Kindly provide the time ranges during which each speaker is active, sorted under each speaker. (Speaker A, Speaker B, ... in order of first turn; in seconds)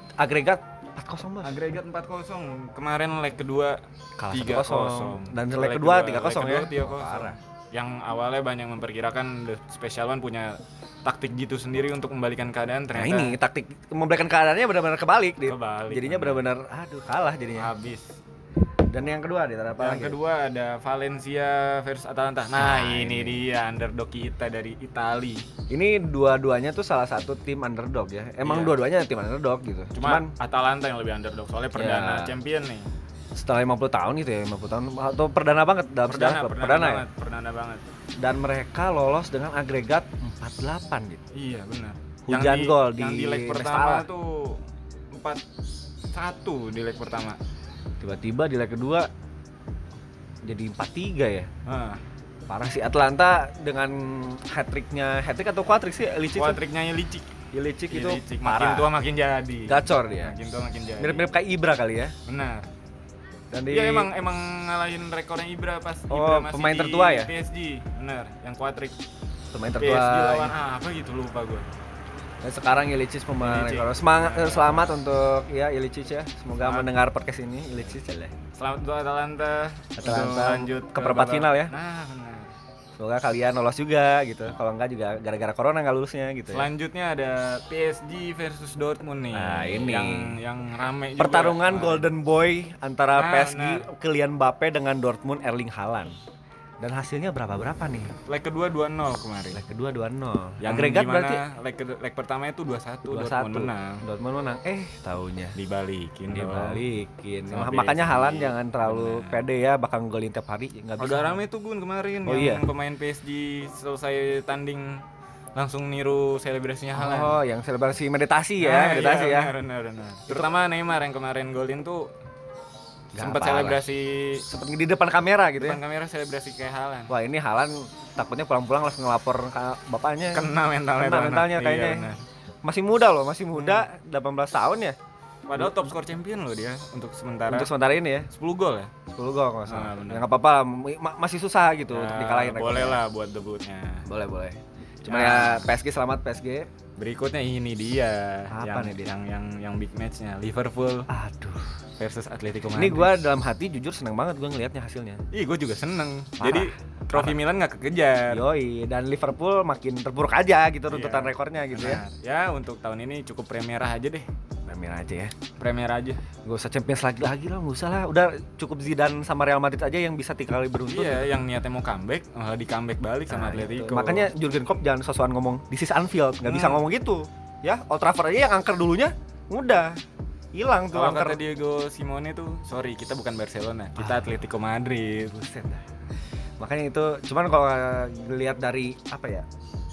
Speaker A: 0.2-1.6, 4.2-7.3, 12.9-17.7, 18.9-20.2, 22.6-23.4, 25.7-30.3, 31.7-32.3, 33.4-37.0, 38.2-41.2, 42.2-44.0, 48.0-49.1, 50.4-51.5, 52.5-56.6, 57.5-58.9, 59.7-60.4, 61.0-62.1, 63.5-64.1, 66.1-67.3, 69.5-70.5, 72.4-78.3, 80.0-81.7, 83.0-86.7, 89.3-90.3, 91.2-96.1, 96.8-98.1, 99.5-101.4, 103.1-105.5, 106.3-111.4, 112.2-112.7, 117.0-119.5, 123.2-123.8, 124.5-125.8, 127.1-132.1, 132.6-135.0, 135.6-135.9, 137.5-138.3, 139.1-143.0, 144.1-146.7, 148.5-149.0, 151.1-151.8, 152.7-155.2, 156.4-157.4, 158.3-162.0, 164.7-165.3, 166.4-171.3, 173.3-180.0, 180.5-181.4, 184.0-184.3, 185.3-185.8, 186.6-189.5
Speaker B: 1.4-13.3, 15.4-16.5, 17.6-18.2, 19.8-25.5, 28.4-28.8, 29.9-32.9, 36.1-37.8, 41.3-45.4, 46.1-47.4, 51.6-52.0, 56.3-57.3, 57.9-61.2, 62.3-62.7, 63.7-69.0, 69.8-71.6, 73.4-74.9, 76.6-76.9, 78.5-82.5, 86.5-92.1, 93.1-93.8, 98.2-99.6, 100.6-104.0, 105.5-106.8, 107.5-109.4, 111.0-115.0, 115.5-117.4, 118.6-122.1, 123.1-124.4, 125.6-127.1, 130.3-132.2, 133.6-133.8, 135.5-137.7, 138.3-138.9, 139.7-140.2, 141.9-144.0, 145.0-145.7, 147.0-151.1, 152.0-153.2, 155.3-158.4, 160.9-164.3, 165.6-166.2, 170.9-174.3, 176.4-176.8, 180.9-185.3